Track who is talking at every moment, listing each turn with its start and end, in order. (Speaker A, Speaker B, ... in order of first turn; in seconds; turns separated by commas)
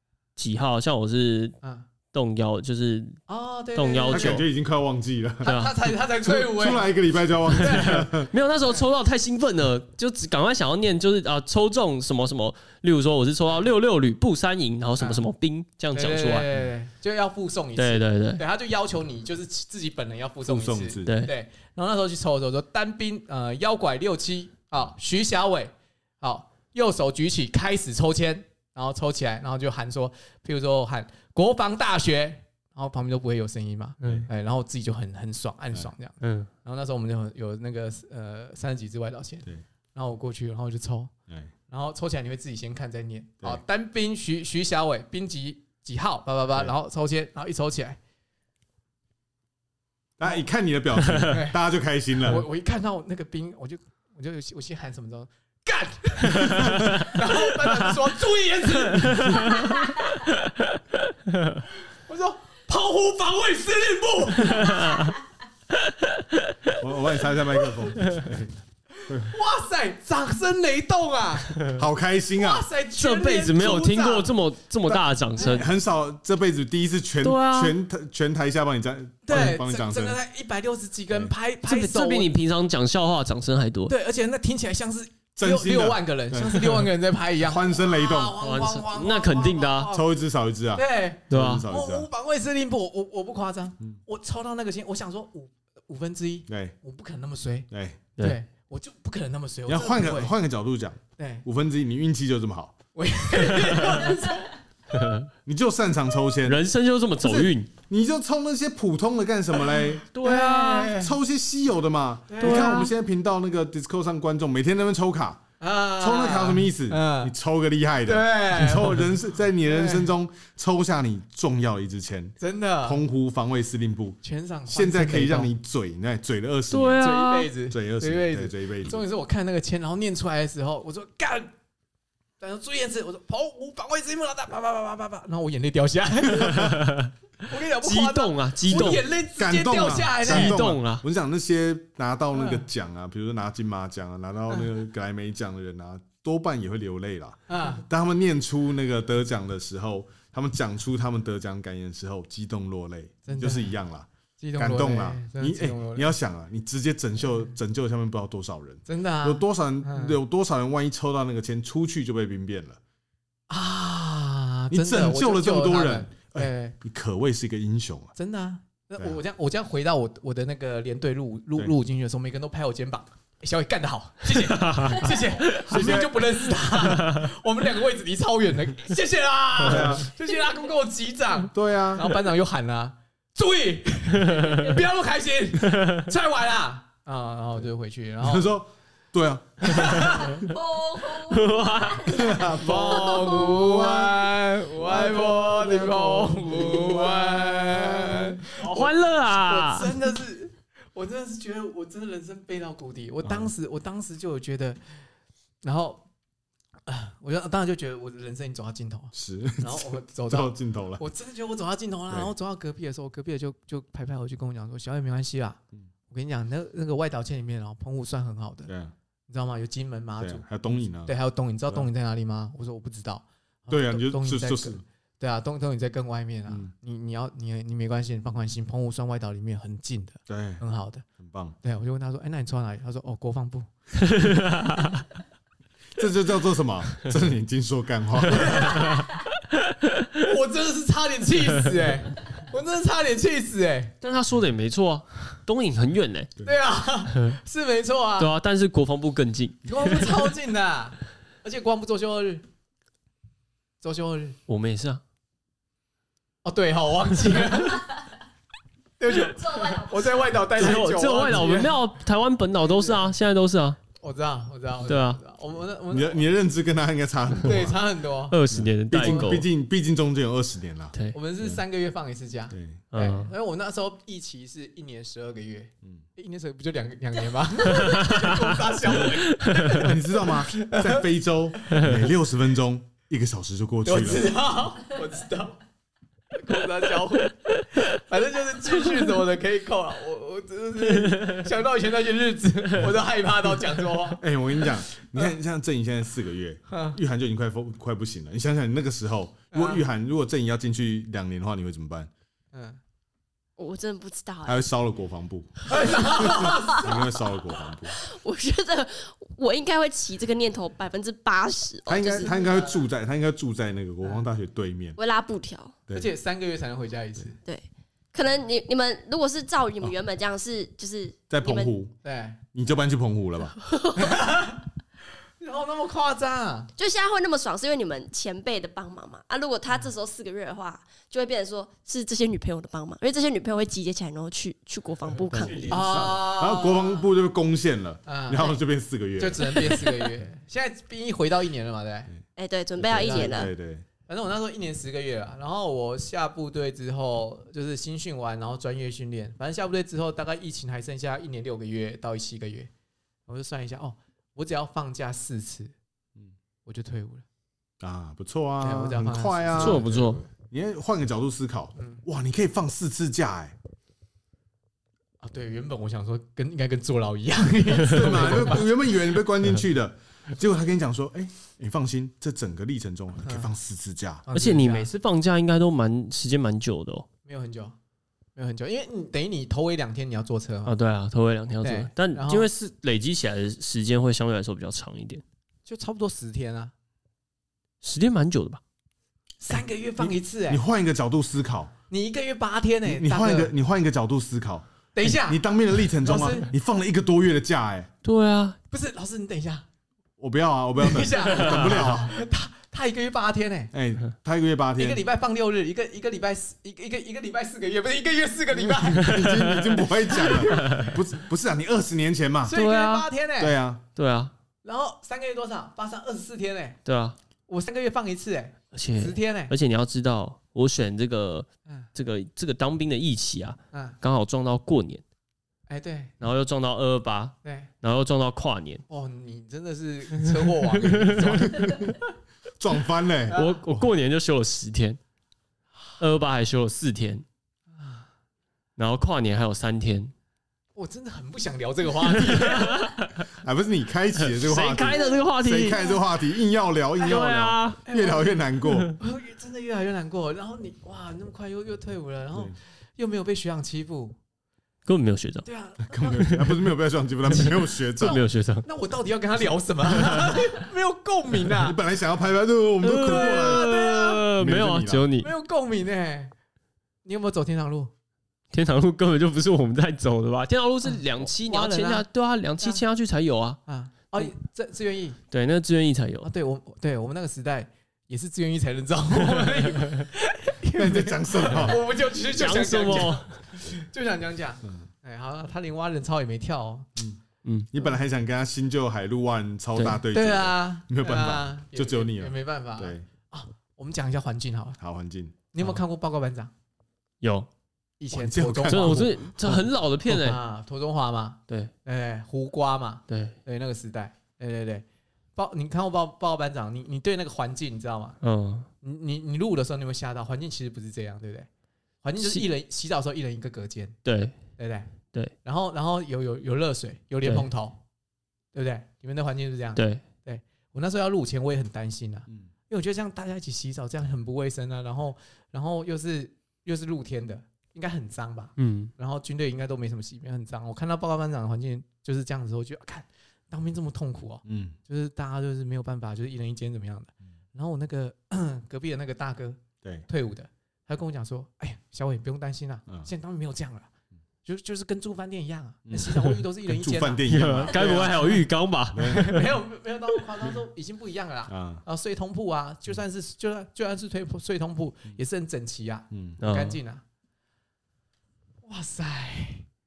Speaker A: 0.4-1.6, Speaker B: 1.6-1.9, Speaker A: 2.1-3.2, Speaker B: 3.3-4.4, Speaker A: 3.8-4.5, Speaker C: 4.1-5.6, Speaker B: 5.4-7.0, Speaker A: 5.5-5.7, Speaker C: 6.2-8.3, Speaker B: 7.5-8.1, Speaker A: 7.6-16.4, Speaker B: 15.0-15.3, Speaker B: 15.9-41.1, Speaker A: 17.8-18.4, Speaker C: 20.5-21.1, Speaker A: 21.1-21.3, Speaker C: 34.0-34.3, Speaker A: 36.2-36.5, Speaker B: 41.7-48.0, Speaker C: 50.2-52.5, Speaker B: 51.3-51.6, Speaker B: 52.2-59.9, Speaker A: 59.0-59.9, Speaker B: 62.1-65.1, Speaker A: 64.5-65.1, Speaker A: 66.2-66.5, Speaker C: 66.8-68.5, Speaker B: 69.0-71.7, Speaker C: 69.1-69.3, Speaker C: 71.7-72.7, Speaker B: 72.3-74.3, Speaker A: 73.0-75.7, Speaker B: 75.4-75.6, Speaker C: 75.4-80.2, Speaker A: 77.2-77.8, Speaker B: 79.3-82.3, Speaker A: 81.6-84.0, Speaker B: 83.9-90.1, Speaker C: 85.4-88.4, Speaker A: 88.4-89.9, Speaker C: 89.9-92.1, Speaker B: 90.7-100.3, Speaker A: 91.3-91.7, Speaker C: 96.5-96.8, Speaker C: 97.7-98.0, Speaker C: 99.7-102.8, Speaker B: 101.2-101.5, Speaker B: 103.0-104.5, Speaker A: 103.6-104.1, Speaker A: 104.9-105.3, Speaker C: 105.5-106.6, Speaker A: 106.5-107.7, Speaker C: 107.2-110.1, Speaker A: 110.1-111.0, Speaker B: 110.2-111.2, Speaker C: 110.9-115.4, Speaker B: 112.3-112.9, Speaker A: 112.4-112.9, Speaker B: 115.6-117.3, Speaker C: 116.0-127.1, Speaker B: 118.1-120.1, Speaker B: 122.4-123.0, Speaker B: 124.2-125.5, Speaker A: 126.7-127.5, Speaker B: 127.0-131.5, Speaker C: 127.7-129.0, Speaker B: 132.4-136.9, Speaker A: 136.6-137.1, Speaker B: 137.4-140.6, Speaker A: 137.8-139.1, Speaker C: 138.7-162.8, Speaker A: 140.2-141.0, Speaker B: 142.3-142.6, Speaker B: 147.5-147.8, Speaker B: 153.3-153.8, Speaker B: 154.4-156.1, Speaker B: 158.9-160.2, Speaker B: 163.5-166.8, Speaker C: 164.7-168.1, Speaker B: 168.2-188.5, Speaker A: 174.4-176.0, Speaker C: 175.7-176.2, Speaker A: 176.8-177.2, Speaker C: 179.6-180.1, Speaker C: 181.5-182.1, Speaker A: 185.7-186.0, Speaker C: 188.2-190.3, Speaker B: 189.6-190.5, Speaker D: 190.5-191.4, Speaker A: 191.0-193.8, Speaker C: 192.0-198.3, Speaker B: 192.2-204.8, Speaker A: 194.9-197.0, Speaker A: 198.5-199.9, Speaker C: 203.2-203.5, Speaker B: 205.6-206.1, Speaker B: 206.9-218.7, Speaker C: 209.1-211.0, Speaker C: 218.7-218.9, Speaker B: 219.3-231.1, Speaker C: 220.2-221.1, Speaker C: 223.7-224.8, Speaker C: 230.3-230.6, Speaker C: 231.2-231.6, Speaker B: 231.6-233.7, Speaker A: 234.2-235.0, Speaker C: 236.0-238.9, Speaker B: 238.3-239.0, Speaker A: 238.8-239.1, Speaker B: 240.2-244.0, Speaker A: 244.0-246.3, Speaker B: 246.4-248.3, Speaker A: 248.2-250.1, Speaker B: 249.7-252.4, Speaker B: 253.8-254.4, Speaker A: 254.5-255.0, Speaker B: 256.4-258.1, Speaker B: 259.0-261.8, Speaker A: 260.5-263.8, Speaker B: 262.6-263.1, Speaker B: 264.0-266.3, Speaker A: 264.9-265.2, Speaker C: 265.9-267.8, Speaker B: 267.4-268.4, Speaker A: 268.3-269.5, Speaker C: 268.5-271.6, Speaker B: 268.9-269.3, Speaker B: 271.1-281.1, Speaker C: 272.5-272.8, Speaker A: 272.9-273.3, Speaker A: 277.8-278.4, Speaker A: 279.1-279.9, Speaker C: 279.7-284.3, Speaker B: 283.9-285.6, Speaker B: 286.3-294.2, Speaker C: 294.2-302.1, Speaker B: 295.0-295.3, Speaker B: 296.7-297.0, Speaker B: 299.5-299.8, Speaker B: 302.5-302.8, Speaker D: 303.6-304.6, Speaker C: 304.4-308.0, Speaker B: 305.7-306.9, Speaker D: 305.8-307.0, Speaker D: 307.9-312.3, Speaker C: 311.9-315.0, Speaker B: 312.2-312.8, Speaker D: 315.0-315.8, Speaker B: 315.9-317.4, Speaker D: 317.4-321.7, Speaker C: 321.3-322.0, Speaker B: 322.0-322.4, Speaker C: 322.5-323.6, Speaker D: 323.6-324.2, Speaker B: 324.0-324.6, Speaker B: 325.4-326.7, Speaker D: 326.8-335.9, Speaker C: 335.3-339.9, Speaker B: 335.7-337.1, Speaker B: 338.1-338.6, Speaker B: 339.2-342.1, Speaker D: 342.4-343.5, Speaker C: 342.8-343.9, Speaker B: 342.9-343.5, Speaker B: 344.1-352.7, Speaker B: 353.3-355.7, Speaker B: 356.7-357.2, Speaker C: 357.8-363.6, Speaker B: 358.6-360.3, Speaker A: 359.6-360.2, Speaker B: 361.8-362.0, Speaker B: 365.2-368.7, Speaker C: 367.9-374.2, Speaker B: 373.2-373.5, Speaker B: 374.3-374.9, Speaker A: 374.3-377.1, Speaker B: 377.3-377.8, Speaker B: 378.4-380.8, Speaker A: 380.7-385.2, Speaker B: 381.6-382.5, Speaker B: 385.7-386.7, Speaker A: 387.8-388.6, Speaker B: 389.4-390.6, Speaker C: 390.0-391.7, Speaker B: 391.9-393.5, Speaker C: 392.9-397.9, Speaker B: 394.9-396.5, Speaker A: 398.0-398.6, Speaker B: 398.7-399.7, Speaker C: 400.2-402.1, Speaker B: 400.8-403.7, Speaker C: 403.7-405.0, Speaker B: 404.8-409.4, Speaker C: 408.9-412.6, Speaker A: 409.0-410.9, Speaker B: 410.1-410.9, Speaker B: 412.4-413.6, Speaker A: 412.5-413.1, Speaker C: 413.4-413.8, Speaker A: 414.0-414.3, Speaker B: 414.6-416.8, Speaker A: 416.9-417.2, Speaker B: 417.5-419.5, Speaker A: 418.7-425.0, Speaker B: 423.7-424.0, Speaker B: 425.7-426.1, Speaker A: 426.2-428.8, Speaker B: 427.4-427.7, Speaker B: 428.9-431.9, Speaker A: 430.8-431.7, Speaker C: 431.4-431.9, Speaker C: 432.6-433.4, Speaker B: 433.3-433.7, Speaker A: 433.3-435.0, Speaker A: 436.0-437.2, Speaker B: 437.8-438.1, Speaker A: 438.8-440.1, Speaker B: 440.8-442.9, Speaker A: 442.0-443.2, Speaker C: 443.3-448.9, Speaker A: 444.2-445.9, Speaker A: 447.0-447.8, Speaker B: 447.9-454.2, Speaker A: 454.9-455.5, Speaker B: 455.4-456.3, Speaker C: 455.9-458.2, Speaker A: 456.1-456.6, Speaker A: 457.3-458.6, Speaker B: 458.1-461.8, Speaker C: 461.4-463.8, Speaker A: 462.8-465.3, Speaker B: 463.0-464.2, Speaker C: 464.4-465.1, Speaker B: 465.2-466.3, Speaker B: 467.1-467.9, Speaker A: 468.5-473.6, Speaker B: 470.8-472.1, Speaker B: 473.7-475.2, Speaker A: 475.3-476.3, Speaker B: 476.2-486.9, Speaker A: 479.4-480.0, Speaker C: 480.8-481.8, Speaker A: 482.3-483.4, Speaker A: 487.4-487.7, Speaker C: 487.7-493.1, Speaker B: 490.1-494.8, Speaker C: 494.8-495.4, Speaker B: 495.5-496.5, Speaker A: 497.2-497.5, Speaker B: 498.0-499.1, Speaker C: 498.1-499.6, Speaker A: 498.7-500.4, Speaker B: 500.1-504.9, Speaker A: 503.1-503.4, Speaker B: 505.4-508.2, Speaker A: 508.2-508.7, Speaker B: 508.8-511.5, Speaker B: 512.0-514.0, Speaker A: 512.2-512.5, Speaker A: 514.0-514.4, Speaker B: 514.6-514.9, Speaker B: 515.4-517.8, Speaker B: 518.5-543.9, Speaker A: 519.8-520.0, Speaker A: 528.6-528.9, Speaker C: 534.5-534.8, Speaker C: 539.8-540.1, Speaker B: 544.5-548.4, Speaker C: 545.9-548.3, Speaker A: 547.3-549.5, Speaker C: 548.9-549.3, Speaker B: 549.0-557.0, Speaker C: 551.5-551.8, Speaker C: 556.1-556.4, Speaker A: 556.4-556.8, Speaker B: 558.6-559.7